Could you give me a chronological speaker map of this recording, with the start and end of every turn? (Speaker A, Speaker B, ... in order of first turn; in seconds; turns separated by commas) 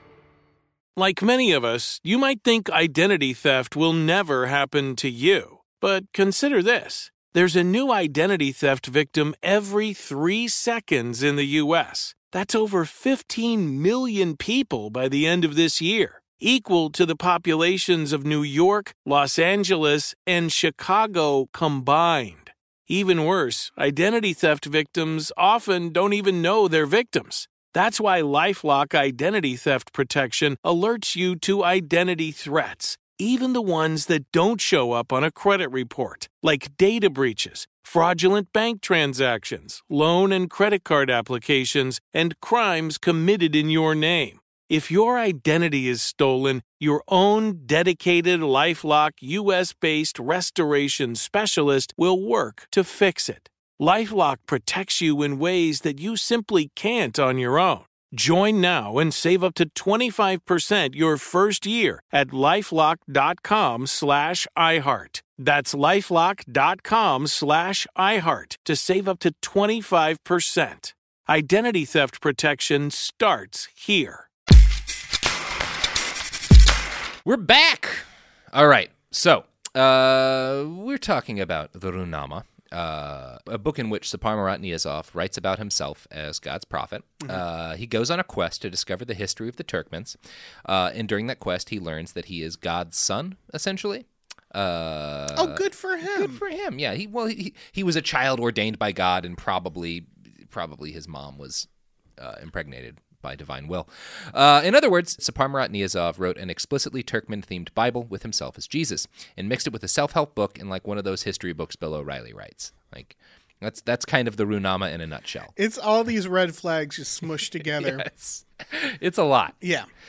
Speaker A: 0.9-74.3, Speaker B: 77.2-101.7, Speaker C: 95.3-96.4, Speaker B: 102.2-115.5, Speaker C: 115.5-118.1, Speaker B: 117.7-119.5, Speaker C: 119.6-119.9